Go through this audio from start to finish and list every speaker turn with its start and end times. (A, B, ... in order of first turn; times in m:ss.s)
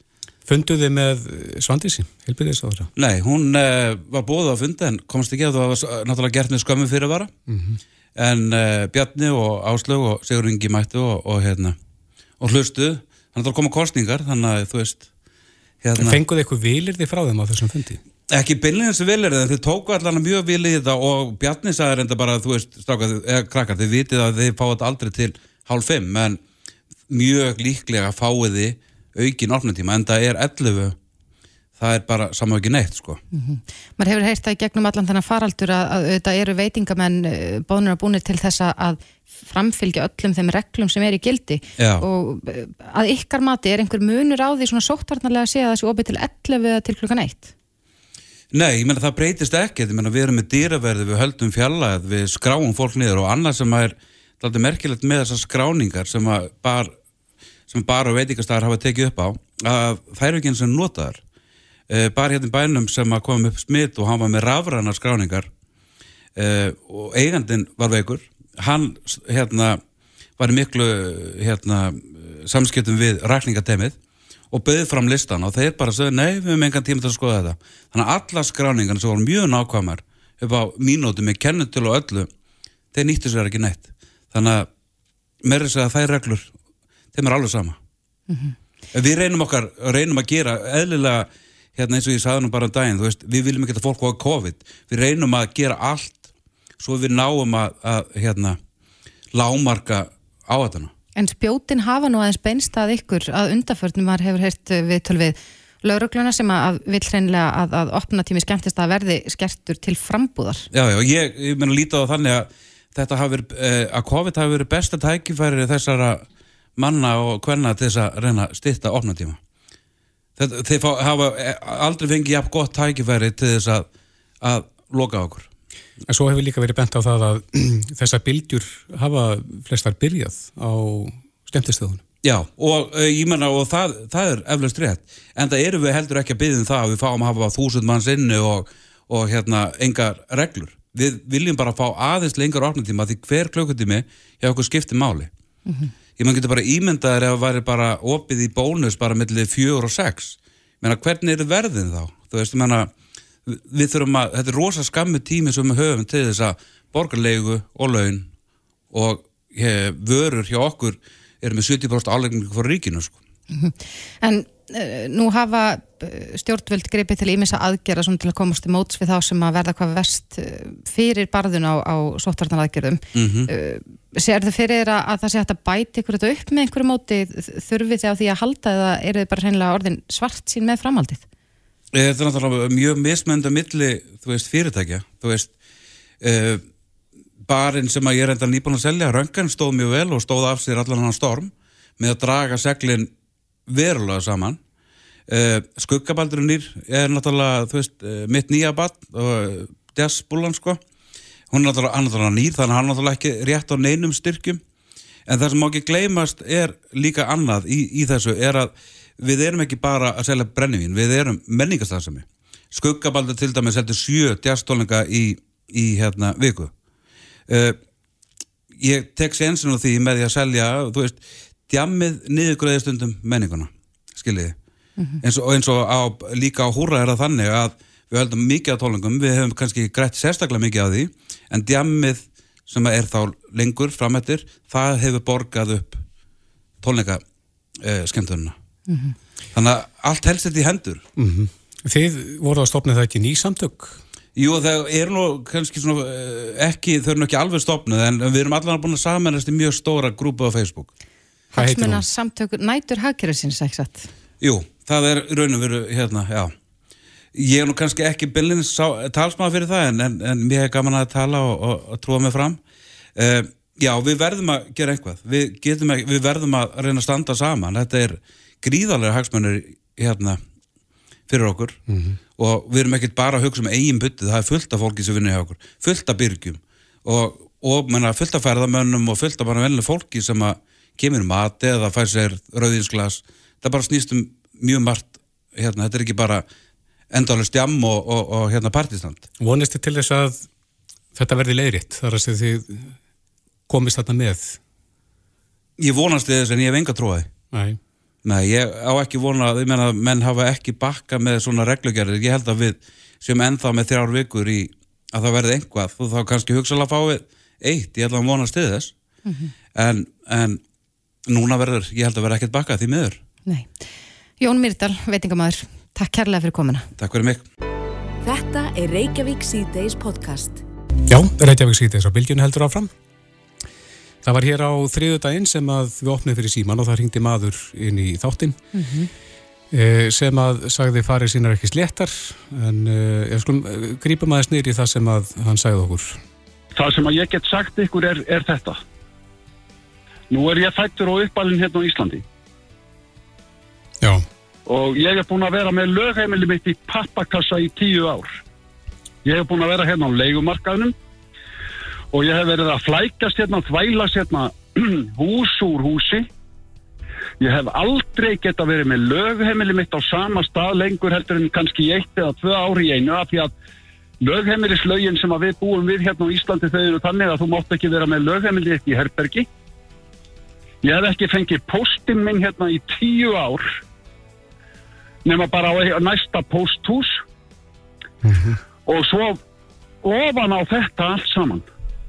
0:00.4-0:02.9 A
0:03.0-0:07.3 B
0:07.5-0:07.8 A
0:08.2-0:11.8 B
0:12.4-0:15.0 B
0:15.8-0:16.2 B
0:16.0-0:18.0 A
0:18.3-0:26.4 B
0:27.1-0:31.0 B
0:31.8-0:33.2 B
0:33.3-0:47.5 C
0:41.8-0:42.0 B
0:48.5-0:56.9 B
0:57.7-1:01.2 B
1:01.9-1:05.5 B
1:06.4-1:09.8 B
1:10.4-1:13.9 B
1:14.5-1:22.3 B
1:22.9-1:24.7 B
1:25.4-1:26.5 B
1:27.1-1:27.8 B
1:28.3-1:28.5 C
1:28.9-1:36.3 B
1:36.8-1:38.6 B
1:39.3-1:40.9 B
1:41.2-1:50.7 C
1:50.7-1:56.2 B
1:56.8-1:59.4 B
2:00.4-2:03.9 B
2:04.4-2:05.5 B
2:06.1-2:12.0 A
2:12.2-2:25.3 B
2:26.2-2:32.9 B
2:33.5-2:38.3 B
2:38.9-2:43.2 B
2:43.5-3:01.2 C
2:53.1-2:53.5 B
3:01.9-3:05.5 B
3:06.2-3:06.6 B
3:07.4-3:13.1 B
3:13.7-3:14.6 B
3:15.3-3:20.8 B
3:21.5-3:24.6 B
3:25.3-3:36.7 B
3:37.5-3:37.8 B
3:38.8-3:41.2 B
3:41.7-3:44.5 B
3:45.2-3:56.0 B
3:56.8-3:57.2 B
3:57.8-3:58.5 B
3:58.9-3:59.1 C
3:59.5-4:01.0 B
4:01.2-4:04.0 A
4:04.4-4:10.9 B
4:11.5-4:14.1 C
4:11.6-4:12.0 A
4:14.4-4:16.5 B
4:17.3-4:22.6 B
4:23.2-4:30.4 B
4:31.3-4:31.8 B
4:31.9-4:32.2 A
4:32.4-4:46.4 B
4:47.1-4:49.2 B
4:49.4-4:50.5 A
4:51.1-4:52.9 A
4:53.7-4:54.6 A
4:55.8-4:57.3 B
4:57.5-4:57.8 A
4:58.2-5:08.9 B
5:09.2-5:09.5 C
5:09.7-5:10.6 B
5:11.3-5:13.2 B
5:13.4-5:13.8 C
5:14.4-5:16.9 C
5:17.0-5:17.4 B
5:18.2-5:20.6 D
5:21.1-5:22.9 A
5:24.2-5:28.6 A
5:28.7-5:29.1 C
5:29.7-5:36.2 A
5:36.8-5:38.8 E
5:40.3-5:42.2 E
5:44.6-5:48.4 E
5:49.2-5:50.9 E
5:52.1-5:56.3 E
5:57.4-6:03.5 E
6:04.2-6:09.5 E
6:10.8-6:13.7 E
6:15.2-6:17.2 E
6:18.2-6:18.6 A
6:18.8-6:19.4 E
6:20.0-6:21.7 E